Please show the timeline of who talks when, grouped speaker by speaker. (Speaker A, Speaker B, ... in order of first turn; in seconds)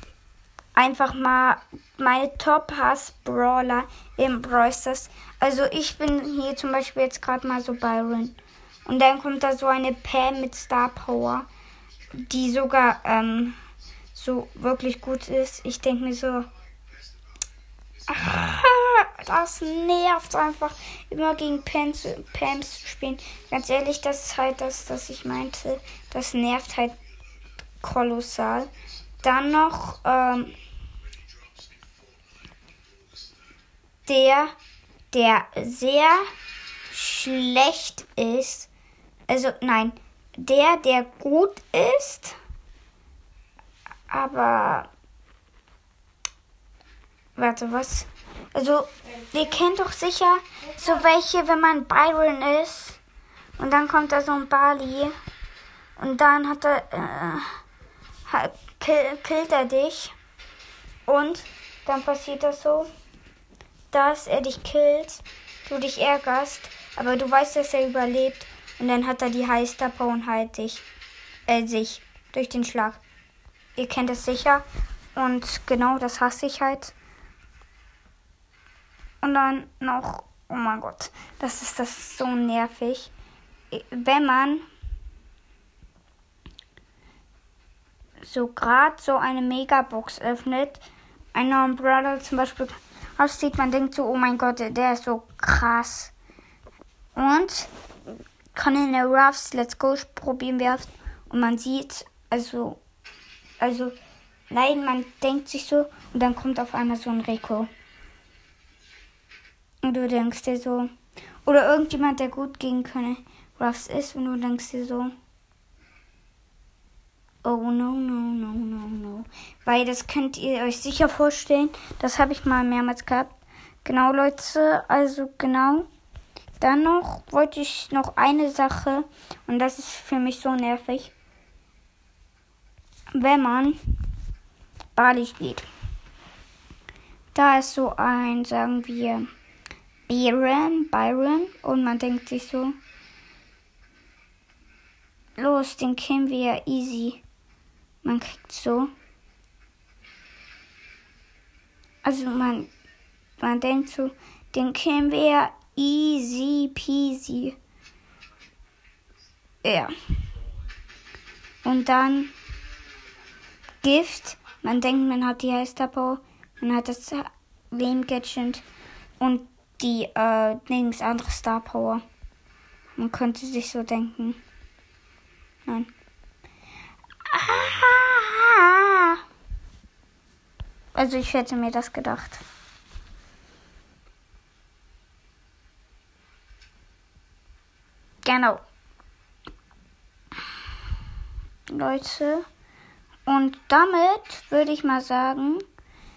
Speaker A: 0.8-11.5, 12.1-13.6, 14.1-16.5, 18.1-27.0, 27.8-28.7, 29.2-30.5, 34.1-34.5, 35.1-36.3, 36.9-38.7, 39.3-42.4, 44.1-44.9, 47.4-53.0, 53.6-55.1, 56.0-57.5, 58.3-60.1, 61.1-62.9, 63.9-70.8, 71.5-73.0, 73.8-74.6, 75.2-76.9, 79.2-83.1, 83.7-84.6, 88.2-96.1, 97.2-97.7, 98.5-102.8, 103.6-104.0, 104.5-107.7, 109.8-110.9, 111.5-115.1, 117.4-123.3, 123.8-125.9, 126.6-131.1, 133.1-133.8, 135.0-135.7, 137.3-139.3, 140.1-142.8, 145.4-147.2, 148.0-148.9, 152.0-152.7, 153.4-157.6, 159.6-159.9, 161.6-162.3, 163.8-168.6, 169.2-172.0, 173.0-174.4, 177.3-179.2, 180.9-182.4, 188.2-188.6, 191.7-192.4, 193.3-195.7